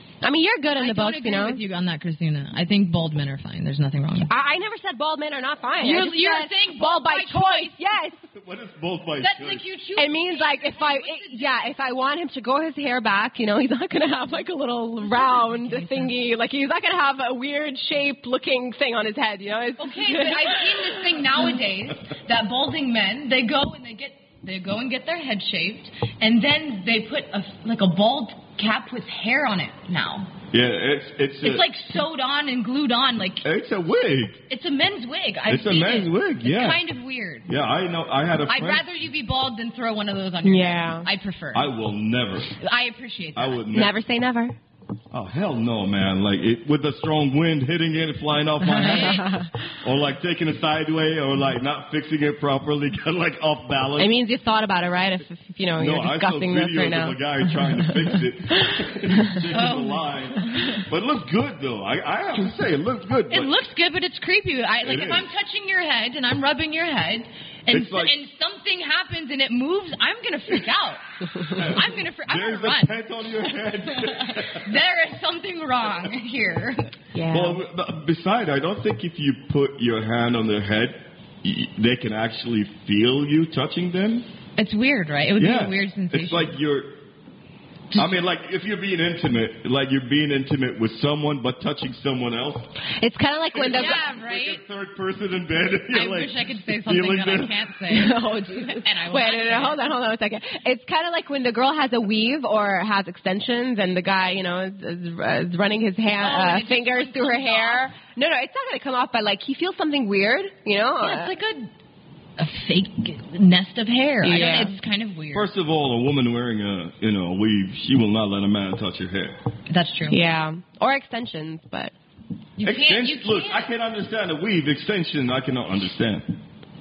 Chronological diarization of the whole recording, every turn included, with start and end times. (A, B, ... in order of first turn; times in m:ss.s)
0:00.2-0:01.6 A
0:00.8-0:04.3 B
0:04.3-0:08.2 A
0:05.8-0:07.8 B
0:08.3-0:09.6 C
0:09.2-0:11.7 B
0:10.0-0:21.1 A
0:15.0-0:16.1 B
0:19.8-0:30.3 B
0:30.5-0:31.7 C
0:31.4-0:33.4 B
0:33.4-0:34.4 C
0:34.5-0:37.5 B
0:35.5-0:36.8 C
0:37.4-0:38.8 C
0:38.5-0:41.7 B
0:40.4-0:41.1 A
0:41.5-0:42.6 C
0:42.6-0:43.7 B
0:43.3-0:44.0 C
0:43.7-0:44.6 A
0:45.1-0:54.2 C
0:48.7-0:49.3 B
0:48.8-0:49.5 A
0:54.0-0:58.7 A
0:55.8-1:03.5 C
0:59.5-1:00.8 B
1:03.3-1:12.9 B
1:04.8-1:05.3 C
1:07.7-1:08.2 C
1:11.5-1:14.7 C
1:13.9-1:16.9 B
1:17.1-1:17.6 A
1:17.3-1:24.3 C
1:24.6-1:26.6 B
1:25.4-1:27.0 C
1:27.9-1:32.7 C
1:33.0-1:34.0 A
1:33.5-1:37.7 C
1:33.7-1:34.6 B
1:35.9-1:39.8 B
1:37.9-1:51.3 A
1:46.2-1:47.9 B
1:51.0-1:51.7 B
1:52.4-1:55.5 B
1:54.2-1:54.8 A
1:55.3-1:59.4 C
1:59.7-2:00.2 B
2:00.1-2:01.9 A
2:02.6-2:03.6 B
2:02.6-2:06.4 C